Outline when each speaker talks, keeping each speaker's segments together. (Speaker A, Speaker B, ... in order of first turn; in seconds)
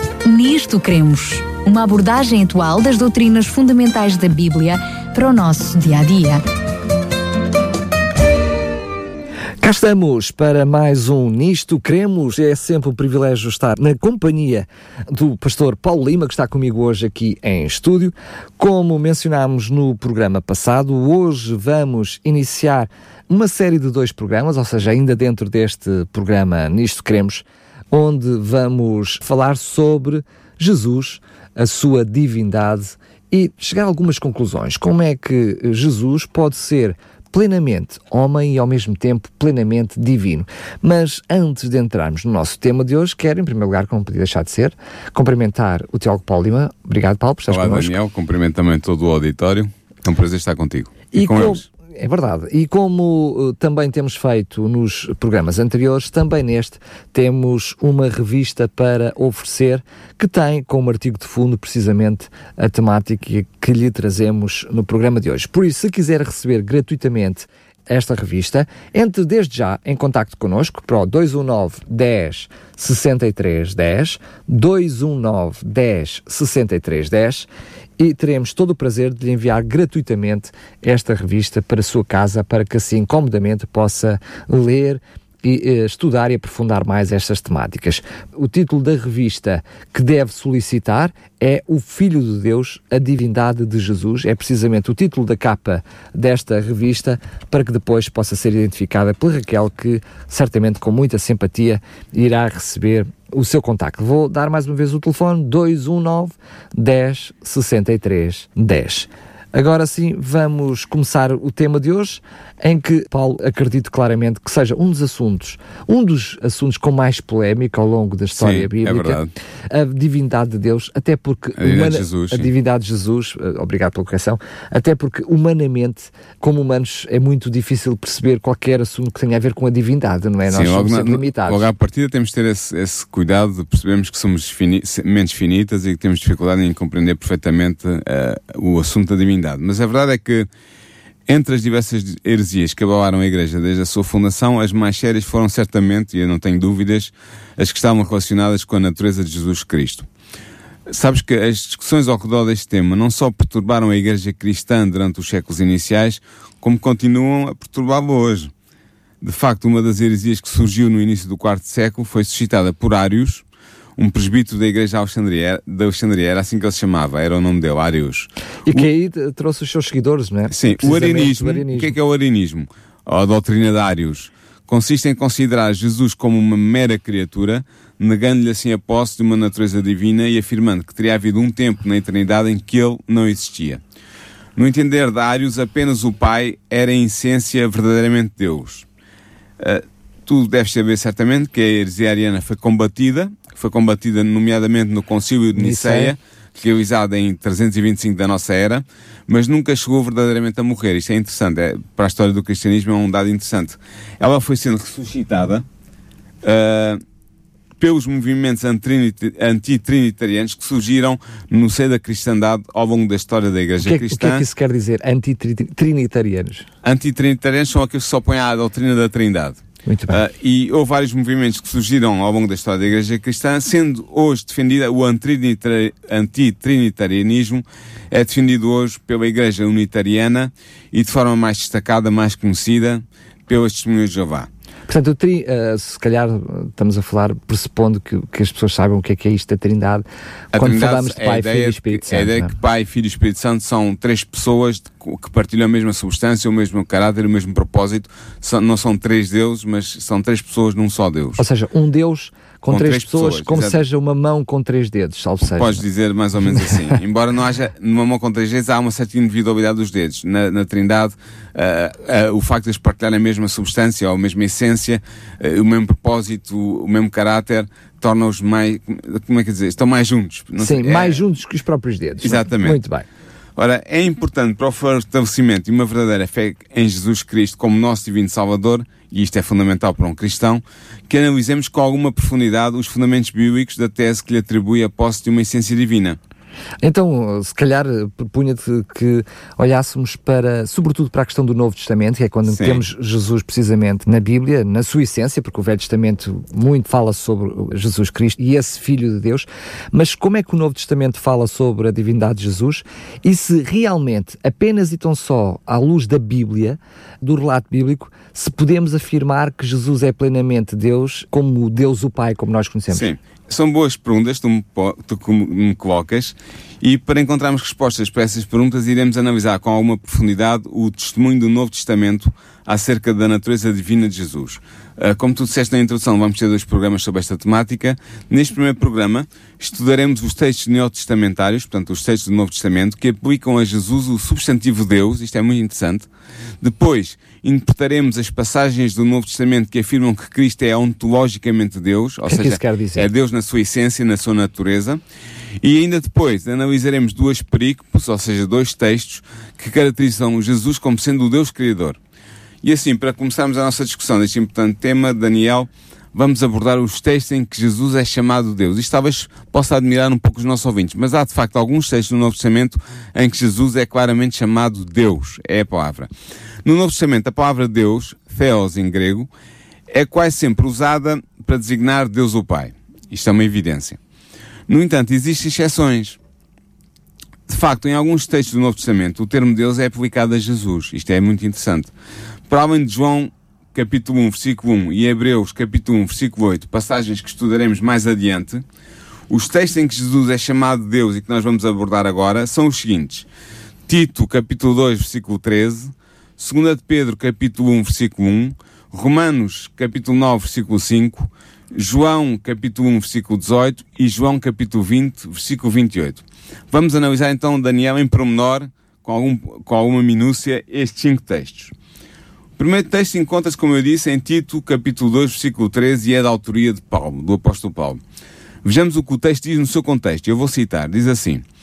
Speaker A: 0.2-6.4
Speaker B: 9.6-47.9, 51.1-131.6, 168.7-171.9, 195.6-196.1, 213.8-216.7, 219.9-220.2, 234.9-242.6, 251.4-255.8, 270.6-273.1, 286.8-313.1, 342.3-343.1
Speaker C: 47.5-51.7, 118.4-119.3, 121.6-122.5, 130.5-140.5, 141.3-150.1, 150.9-158.5, 159.2-163.4, 164.0-168.9, 170.5-183.8, 184.6-188.9, 189.6-205.7, 206.4-207.0, 207.8-214.4, 216.8-234.5, 240.5-251.4, 252.7-253.8, 255.5-271.2, 272.2-272.8, 273.6-286.2, 292.5-292.9, 312.9-336.1, 336.6-345.0, 345.6-352.0, 352.6-366.1, 366.6-369.3, 369.9-374.0, 374.7-376.2, 377.5-381.9, 382.5-388.6, 389.3-393.3, 393.9-411.7, 412.6-418.0, 418.6-421.4